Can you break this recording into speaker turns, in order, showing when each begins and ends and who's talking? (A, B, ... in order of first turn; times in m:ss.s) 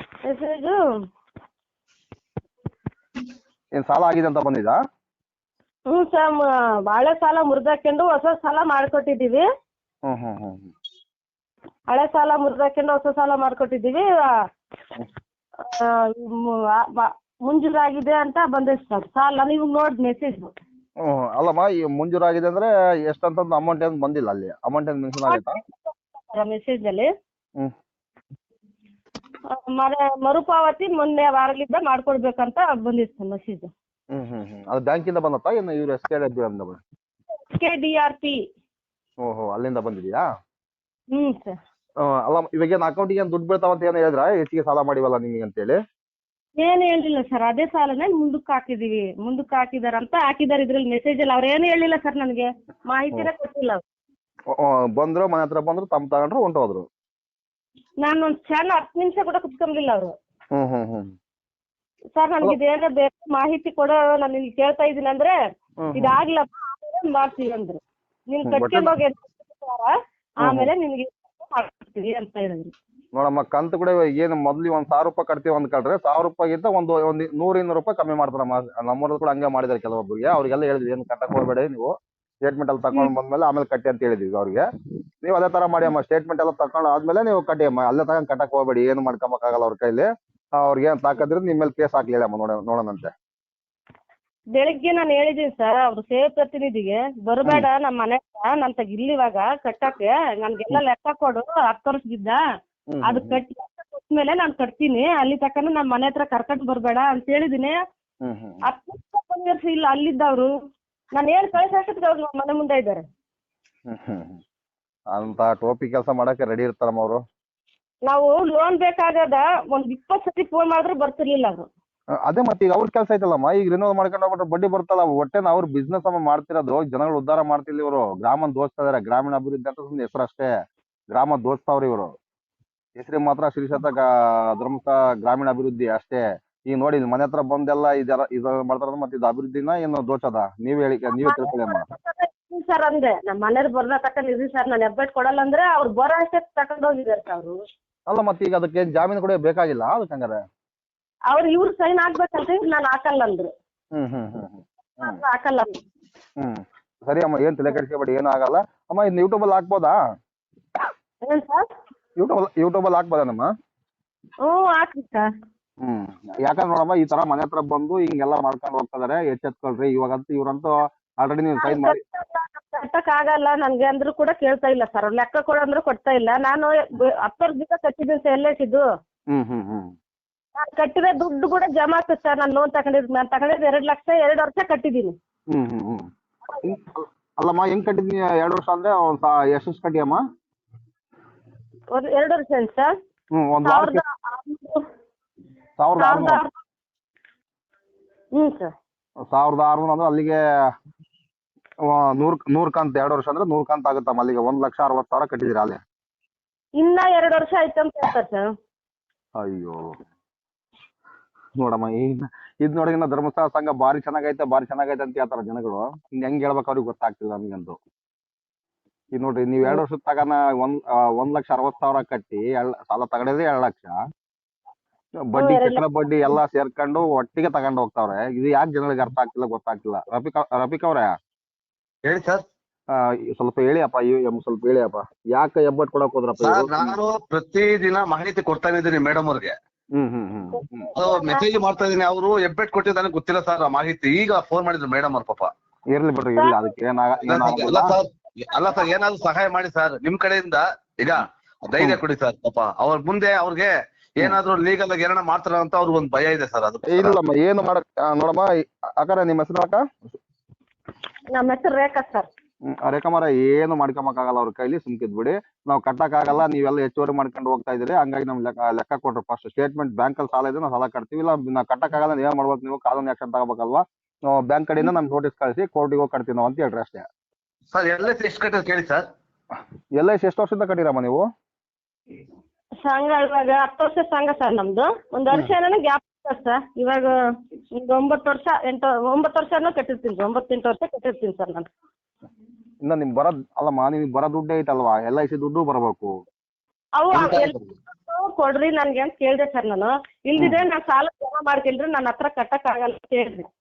0:00.2-0:00.8 A
0:03.8-0:04.8 B
0:05.9-0:09.4 A
0:10.1-0:10.7 B
0:11.9-0:14.1 A
0:15.6-0:20.5 A
0:21.0-0:25.6 B
0:25.2-0:27.1 A
0:29.5-0:33.7 A
0:34.1-0:36.8 B
0:37.5-0:38.4 A
0:39.2-0:40.2 B
0:41.1-0:41.6 A
0:42.1-0:45.8 B
0:46.6-0:53.8 A
0:54.5-0:56.8 B
0:58.0-1:00.1 A
1:00.5-1:01.1 B
1:02.1-1:05.3 A
1:05.8-1:06.2 B
1:06.0-1:12.7 A
1:08.4-1:08.9 B
1:10.4-1:10.7 B
1:13.1-1:21.9 B
1:22.4-1:24.6 B
1:25.2-1:30.1 B
1:30.6-1:33.1 B
1:34.6-1:42.4 A
1:42.9-1:43.4 B
1:43.0-1:47.8 A
1:48.2-1:48.6 B
1:48.6-1:50.5 A
1:51.2-1:53.0 A
1:53.9-1:54.4 B
1:55.1-1:57.2 B
1:58.0-2:01.7 A
2:02.3-2:10.5 B
2:11.1-2:12.1 B
2:13.0-2:21.8 B
2:21.2-2:27.6 A
2:28.1-2:30.4 B
2:31.3-2:33.5 A
2:33.9-2:35.2 B
2:35.0-2:35.7 A
2:36.4-2:40.0 B
2:41.2-2:41.7 A
2:42.2-2:43.5 B
2:44.4-2:45.3 A
2:45.8-2:52.0 B
2:51.6-2:58.8 A
2:59.3-2:59.9 B
3:00.6-3:05.1 A
3:05.5-3:06.0 B
3:06.5-3:06.7 A
3:06.6-3:10.2 B
3:11.9-3:12.9 A
3:13.3-3:14.0 B
3:13.6-3:14.8 A
3:15.8-3:16.4 B
3:16.0-3:16.5 A
3:18.3-3:18.7 A
3:19.3-3:20.4 B
3:21.9-3:25.8 B
3:26.8-3:28.5 A
3:29.4-3:29.9 B
3:31.6-3:37.8 B
3:39.1-3:43.9 B
3:45.3-3:51.1 B
3:45.4-3:46.4 A
3:52.0-3:52.4 C
3:52.9-3:57.0 B
3:56.4-3:59.5 C
4:00.0-4:00.9 B
4:00.5-4:01.5 A
4:01.0-4:05.5 C
4:05.9-4:07.9 B
4:06.4-4:06.7 A
4:07.2-4:17.2 C
4:16.8-4:18.4 B
4:19.0-4:19.8 B
4:21.3-4:22.3 A
4:22.7-4:37.0 B
4:37.7-4:39.0 C
4:40.0-4:41.2 B
4:42.8-4:47.1 A
4:47.8-4:51.7 A
4:52.8-4:56.1 B
4:57.0-5:03.5 A
4:57.1-4:57.7 C